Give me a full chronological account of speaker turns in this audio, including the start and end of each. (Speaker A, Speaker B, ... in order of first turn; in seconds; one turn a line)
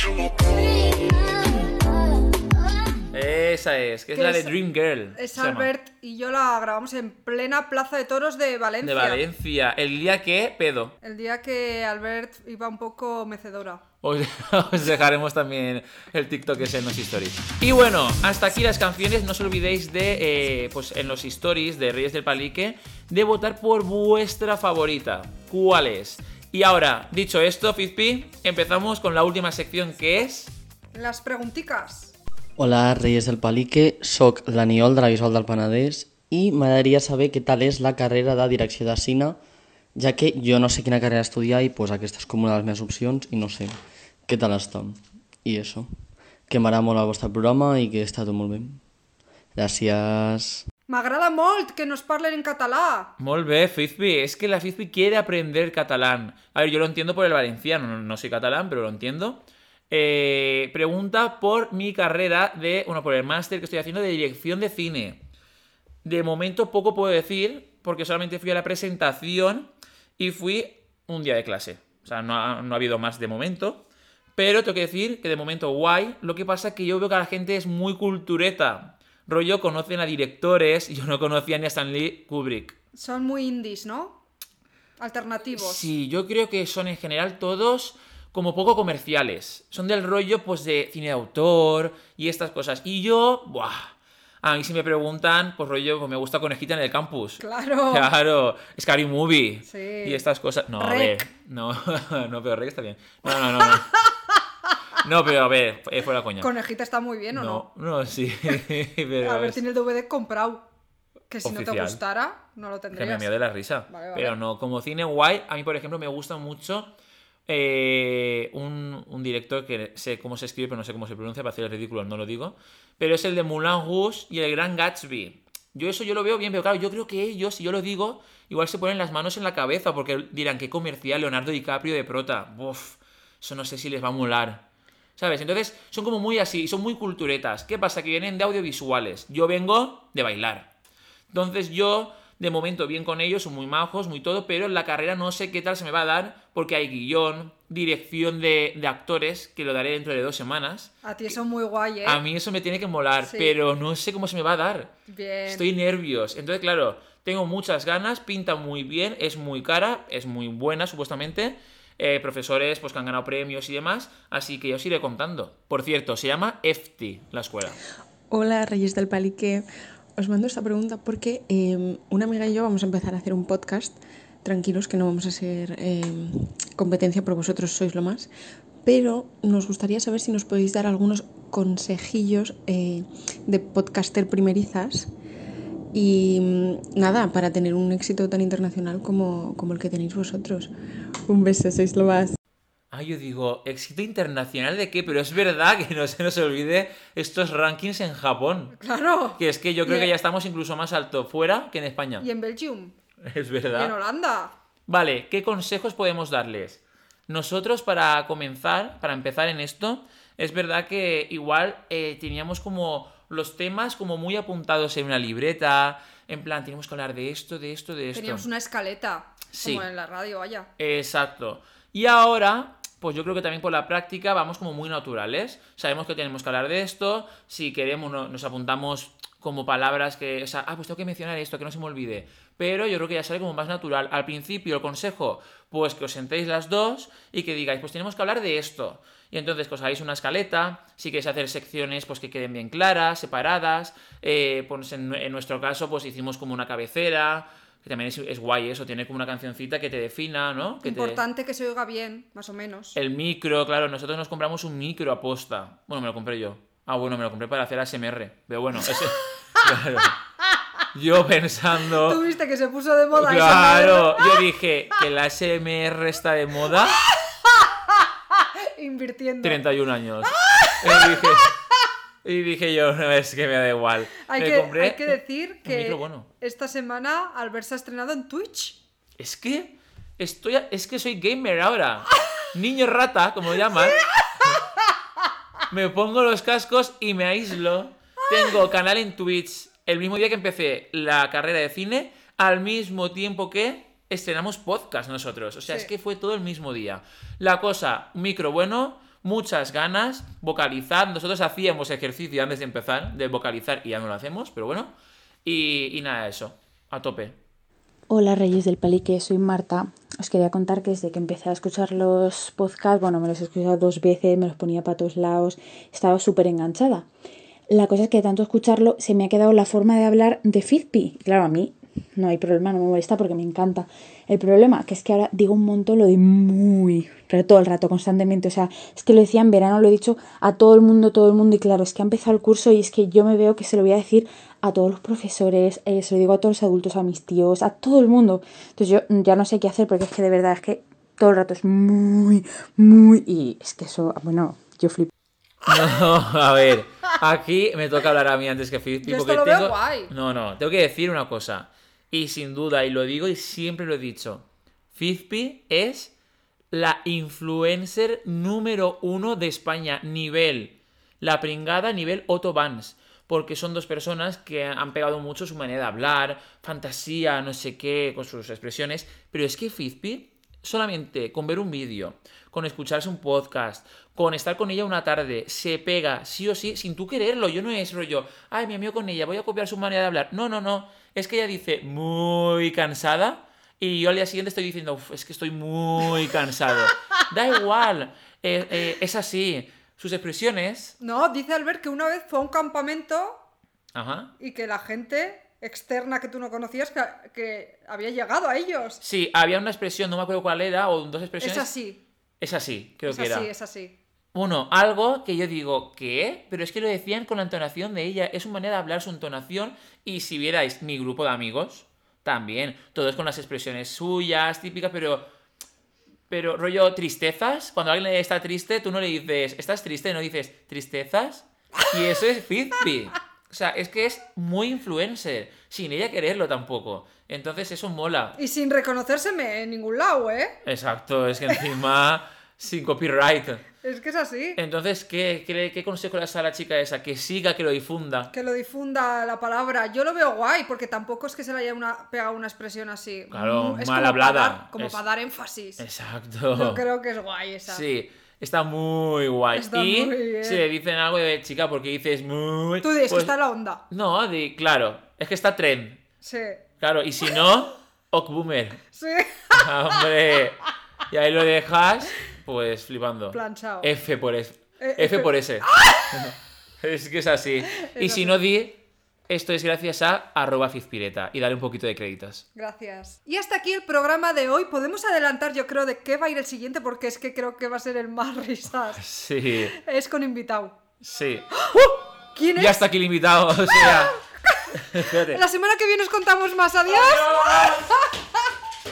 Speaker A: 3.1-5.7
Speaker B: 4.1-4.5
Speaker B: 5.2-9.2
Speaker A: 8.8-10.9
Speaker B: 11.0-13.8
Speaker A: 14.0-30.5
Speaker B: 30.9-32.1
Speaker C: 32.6-39.4
Speaker C: 40.0-45.9
Speaker C: 46.5-48.8
Speaker C: 49.5-50.6
Speaker B: 50.9-53.1
Speaker A: 53.2-65.2
Speaker A: 66.0-73.8
Speaker A: 74.4-82.8
Speaker B: 83.0-84.2
Speaker B: 85.0-85.9
Speaker A: 85.5-103.9
Speaker B: 97.4-98.1
Speaker B: 99.7-100.2
Speaker B: 100.8-101.2
Speaker A: 105.0-106.5
Speaker B: 106.4-107.7
Speaker A: 107.3-109.6
Speaker B: 109.2-110.7
Speaker B: 111.3-113.3
Speaker A: 111.5-112.0
Speaker A: 112.9-116.9
Speaker B: 113.9-114.3
Speaker A: 117.5-134.7
Speaker A: 135.2-140.7
Speaker A: 141.3-151.4
Speaker B: 151.0-152.2
Speaker A: 152.1-154.9
Speaker B: 153.2-153.6
Speaker B: 155.1-155.7
Speaker A: 155.5-167.8
Speaker D: 168.3-169.7
Speaker D: 170.2-178.3
Speaker D: 178.8-185.1
Speaker D: 185.9-190.7
Speaker D: 191.3-192.4
Speaker A: 192.9-198.8
Speaker B: 198.8-200.1
Speaker A: 199.4-202.3
Speaker B: 202.2-202.9
Speaker A: 203.2-204.0
Speaker B: 203.7-204.5
Speaker A: 204.9-218.5
Speaker B: 218.1-220.7
Speaker A: 219.5-219.9
Speaker A: 220.8-251.2
Speaker B: 250.8-253.0
Speaker A: 252.9-260.2
Speaker A: 260.9-262.2
Speaker B: 262.0-264.4
Speaker A: 263.1-267.0
Speaker B: 268.4-269.6
Speaker A: 269.4-271.6
Speaker B: 270.5-271.3
Speaker A: 272.2-276.3
Speaker B: 274.3-278.8
Speaker A: 279.2-284.6
Speaker A: 285.7-304.9
Speaker A: 305.4-307.4
Speaker E: 308.1-317.1
Speaker E: 317.7-345.1
Speaker A: 345.6-356.1
Speaker B: 349.0-350.1
Speaker A: 356.7-391.0
Speaker B: 391.0-393.4
Speaker A: 393.9-394.3
Speaker B: 394.4-399.0
Speaker A: 399.0-401.7
Speaker B: 401.4-402.0
Speaker A: 402.4-403.5
Speaker B: 403.1-403.9
Speaker A: 404.3-415.3
Speaker A: 416.3-428.4
Speaker B: 428.4-430.6
Speaker A: 430.6-433.6
Speaker B: 433.8-434.6
Speaker A: 434.6-438.3
Speaker B: 438.3-445.8
Speaker A: 443.3-445.0
Speaker A: 445.8-446.8
Speaker B: 446.5-447.8
Speaker A: 447.7-453.4
Speaker B: 449.5-450.6
Speaker B: 452.8-453.8
Speaker A: 453.9-456.0
Speaker B: 456.2-456.6
Speaker A: 456.8-458.8
Speaker B: 458.9-459.7
Speaker A: 459.5-472.4
Speaker B: 463.3-463.9
Speaker B: 464.8-466.2
Speaker B: 467.8-468.4
Speaker B: 472.6-479.0
Speaker A: 478.9-479.8
Speaker B: 479.8-480.8
Speaker A: 481.0-484.2
Speaker B: 482.4-482.9
Speaker B: 483.8-484.7
Speaker A: 484.7-485.4
Speaker B: 485.3-488.1
Speaker A: 486.9-487.9